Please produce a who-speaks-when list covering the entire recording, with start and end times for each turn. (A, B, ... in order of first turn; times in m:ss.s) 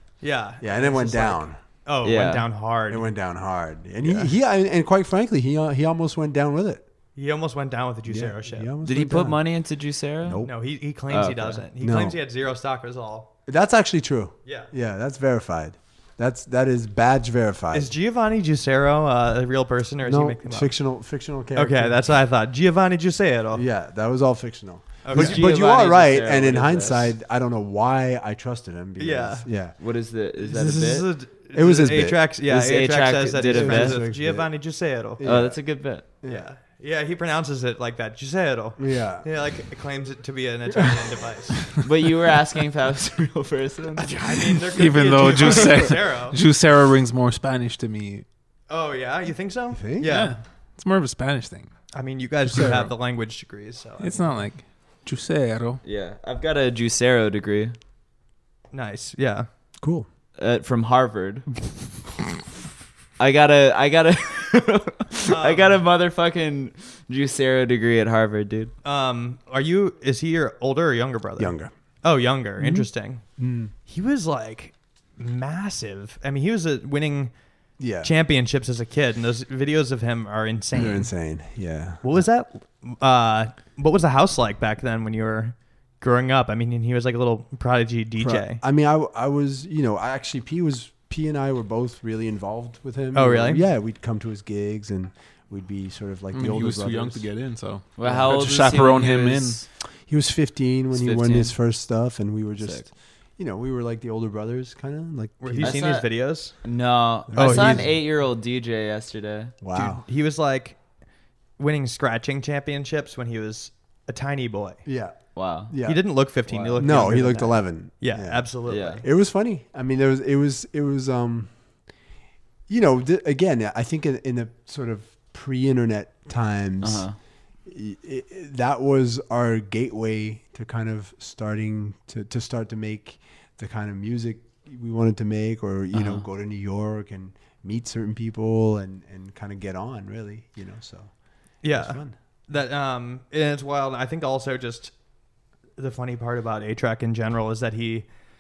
0:00.2-0:03.1 A
0:00.6-0:01.6 B
0:02.0-0:02.5 C
0:02.9-0:06.8 B
0:04.0-0:04.3 A
0:07.2-0:08.7 A
0:08.1-0:09.4 B
0:08.8-0:10.5 C
0:10.2-0:10.5 B
0:10.4-0:13.3 A
0:11.1-0:11.6 C
0:11.8-0:12.2 B
0:13.5-0:17.9 B
0:14.5-0:14.7 A
0:17.7-0:20.8 A
0:20.0-0:22.0 B
0:21.6-0:23.6 A
0:23.5-0:29.8 B
0:25.0-0:25.5 A
0:25.1-0:27.1 C
0:29.0-0:29.5 A
0:29.8-0:31.1 C
0:30.4-0:35.2 A
0:31.5-0:32.2 B
0:32.5-0:34.0 C
0:33.4-0:34.5 B
0:35.2-0:35.6 B
0:35.2-0:36.0 C
0:36.2-0:36.5 B
0:36.2-0:41.7 A
0:38.8-0:39.3 B
0:40.7-0:41.0 B
0:41.8-0:44.1 C
0:44.0-0:46.4 A
0:44.7-0:48.2 D
0:48.7-0:50.4 A
0:49.7-0:50.2 B
0:50.0-0:51.7 D
0:51.9-0:54.3 A
0:52.4-0:52.9 D
0:54.0-0:55.8 D
0:55.8-0:57.8 C
0:58.7-0:59.5 A
0:59.8-1:00.1 B
1:00.4-1:01.5 C
1:03.2-1:08.7 C
1:05.3-1:05.8 A
1:08.8-1:13.2 A
1:11.4-1:11.7 B
1:12.6-1:12.9 B
1:13.4-1:13.7 B
1:13.9-1:17.3 A
1:17.8-1:18.1 B
1:18.0-1:21.1 A
1:20.7-1:22.2 B
1:22.0-1:28.6 A
1:28.2-1:37.3 B
1:33.1-1:33.6 A
1:36.3-1:39.6 D
1:38.0-1:39.7 C
1:38.0-1:38.4 B
1:40.1-1:45.9 B
1:40.9-1:41.6 C
1:42.6-1:42.9 C
1:45.4-1:46.6 A
1:45.6-1:49.6 C
1:47.3-1:47.9 B
1:47.4-1:47.9 A
1:49.6-1:50.0 B
1:49.7-1:50.8 A
1:51.6-1:54.8 A
1:54.9-1:55.2 B
1:55.4-1:55.7 C
1:55.7-1:56.0 B
1:55.8-1:59.0 A
1:56.4-1:57.1 C
1:56.8-2:01.5 B
1:58.7-1:59.0 C
2:02.7-2:07.1 B
2:06.8-2:07.2 C
2:07.7-2:21.1 B
2:15.9-2:16.2 C
2:21.6-2:24.9 A
2:21.6-2:22.2 B
2:25.8-2:28.1 A